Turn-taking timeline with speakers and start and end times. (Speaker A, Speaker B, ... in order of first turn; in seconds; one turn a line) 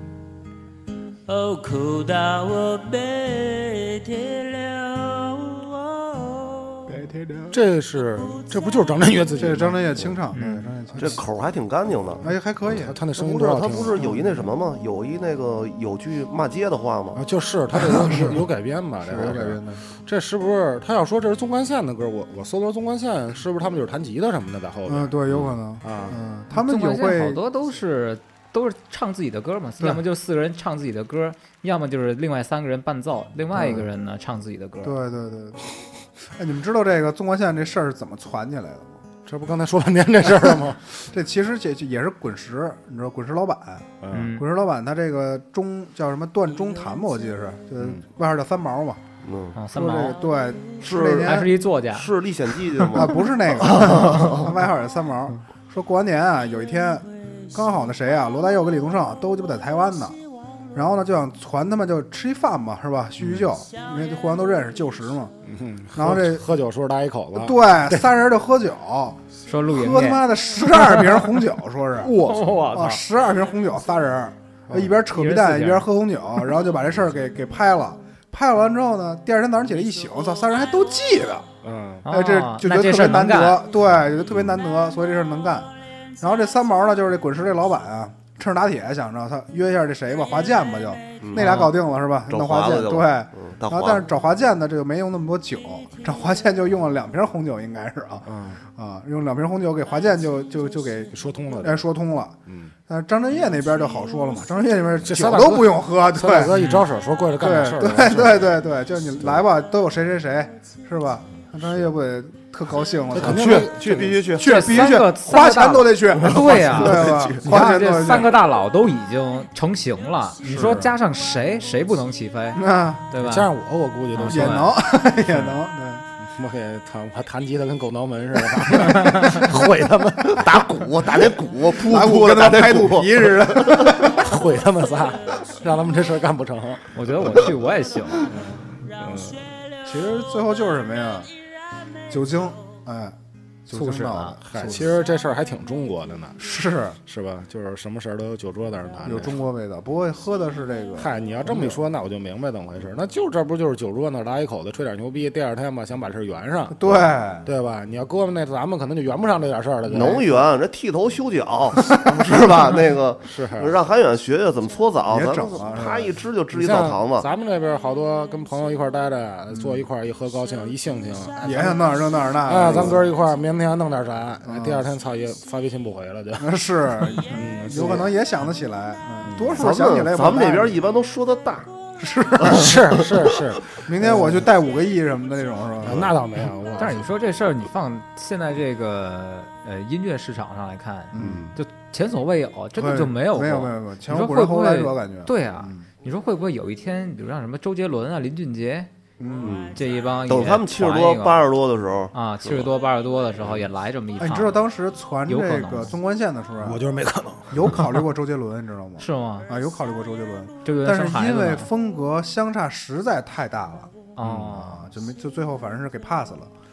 Speaker A: 1.2-7.0
Speaker B: 6.9-7.6
Speaker C: 7.5-10.5
Speaker B: 9.4-11.2
Speaker D: 10.3-10.7
Speaker E: 11.0-12.2
Speaker B: 12.2-12.9
Speaker C: 12.6-14.1
Speaker E: 13.1-17.2
Speaker C: 17.1-26.2
Speaker B: 17.8-18.4
Speaker B: 19.0-19.8
Speaker B: 24.9-27.4
Speaker D: 26.5-35.0
Speaker B: 33.5-33.8
Speaker B: 34.8-35.6
Speaker B: 36.3-39.0
Speaker C: 39.2-40.8
Speaker B: 41.1-49.0
Speaker C: 44.0-44.3
Speaker D: 44.1-44.5
Speaker E: 49.2-49.6
Speaker D: 49.5-50.2
Speaker B: 49.7-51.5
Speaker E: 50.8-54.5
Speaker D: 51.1-52.1
Speaker B: 52.9-60.2
Speaker B: 60.7-65.3
Speaker C: 63.2-63.5
Speaker C: 65.4-68.1
Speaker B: 65.9-66.4
Speaker B: 67.3-81.5
Speaker D: 69.5-71.1
Speaker D: 72.0-73.0
Speaker C: 74.7-74.9
Speaker D: 75.1-75.9
Speaker C: 81.6-82.0
Speaker D: 82.0-83.6
Speaker B: 82.1-85.7
Speaker B: 86.2-106.5
Speaker E: 91.2-91.6
Speaker D: 91.3-91.7
Speaker E: 92.3-94.0
Speaker C: 98.2-98.6
Speaker C: 101.1-101.9
Speaker C: 102.5-102.7
Speaker C: 105.0-108.6
Speaker D: 106.5-106.8
Speaker B: 107.4-118.3
Speaker C: 113.1-114.2
Speaker E: 113.2-114.8
Speaker D: 114.4-123.5
Speaker E: 116.2-117.4
Speaker C: 120.4-120.9
Speaker B: 122.5-123.0
Speaker C: 123.2-124.7
Speaker D: 124.1-124.8
Speaker B: 124.3-126.0
Speaker C: 126.2-131.6
Speaker E: 130.3-134.0
Speaker B: 131.9-134.3
Speaker C: 133.7-137.5
Speaker D: 136.9-138.3
Speaker C: 138.2-139.5
Speaker B: 138.3-138.7
Speaker B: 139.8-141.3
Speaker B: 142.1-144.9
Speaker D: 143.7-144.4
Speaker C: 144.5-146.4
Speaker B: 146.4-147.0
Speaker C: 147.0-149.4
Speaker B: 149.0-151.8
Speaker C: 151.0-160.3
Speaker B: 156.7-157.5
Speaker E: 159.9-167.3
Speaker C: 163.2-163.8
Speaker B: 165.1-166.2
Speaker C: 166.5-178.1
Speaker B: 171.4-173.0
Speaker B: 174.4-174.9
Speaker B: 176.4-180.8
Speaker C: 179.2-179.7
Speaker E: 179.6-181.7
Speaker B: 182.0-182.7
Speaker E: 182.4-183.1
Speaker C: 182.4-184.4
Speaker B: 183.8-186.1
Speaker C: 185.8-187.1
Speaker D: 186.8-198.9
Speaker B: 191.1-191.5
Speaker E: 191.2-191.5
Speaker B: 192.8-195.9
Speaker B: 199.2-199.6
Speaker E: 199.4-202.7
Speaker D: 199.7-201.5
Speaker D: 202.1-204.6
Speaker B: 204.2-206.8
Speaker D: 205.3-205.9
Speaker C: 206.6-208.0
Speaker B: 207.5-213.9
Speaker D: 209.0-209.5
Speaker D: 210.6-211.7
Speaker D: 214.2-214.9
Speaker C: 214.2-214.5
Speaker B: 214.5-216.5